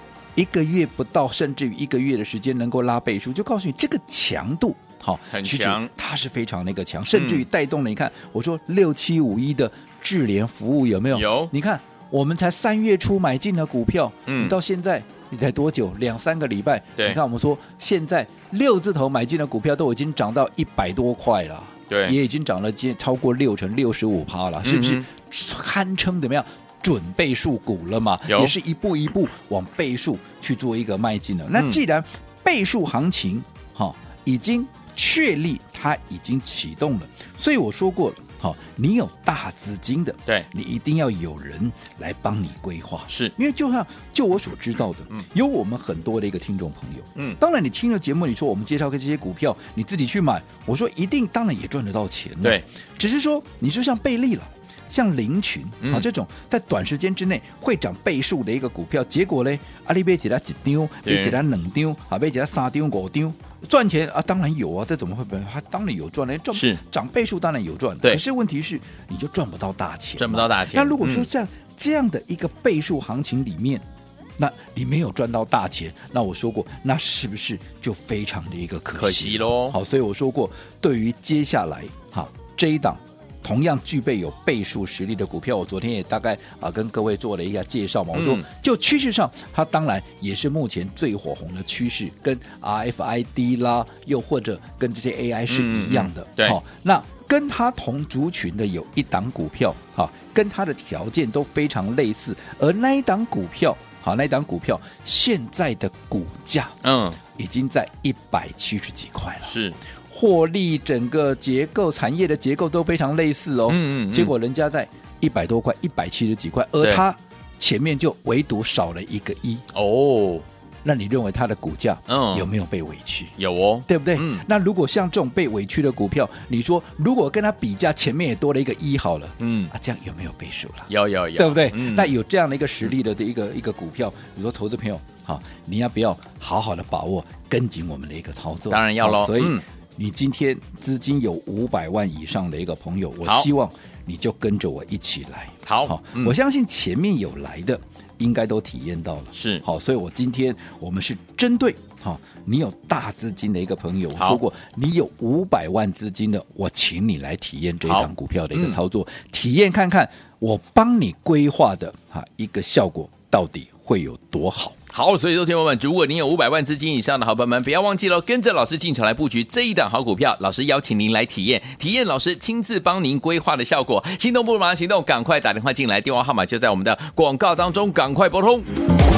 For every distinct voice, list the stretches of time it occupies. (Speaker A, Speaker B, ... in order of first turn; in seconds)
Speaker A: 0.3-73.8, 74.4-106.8, 107.3-109.5, 110.1-119.6, 120.8-123.3, 123.8-164.8
Speaker B: 5.3-5.9, 7.1-7.4, 11.1-11.5, 14.2-14.6, 21.9-22.1, 24.6-25.1, 28.3-28.5, 61.0-61.4, 66.5-66.8, 70.2-71.3, 78.9-79.8, 88.1-88.4, 95.5-96.6, 106.8-107.2, 109.4-109.8, 113.7-114.3, 119.7-120.4, 122.1-122.5, 123.4-124.4, 129.4-129.7, 130.9-132.1, 138.7-139.6, 143.2-143.5, 145.7-146.3, 149.3-149.6, 154.2-154.4, 157.8-158.8, 164.9-178.7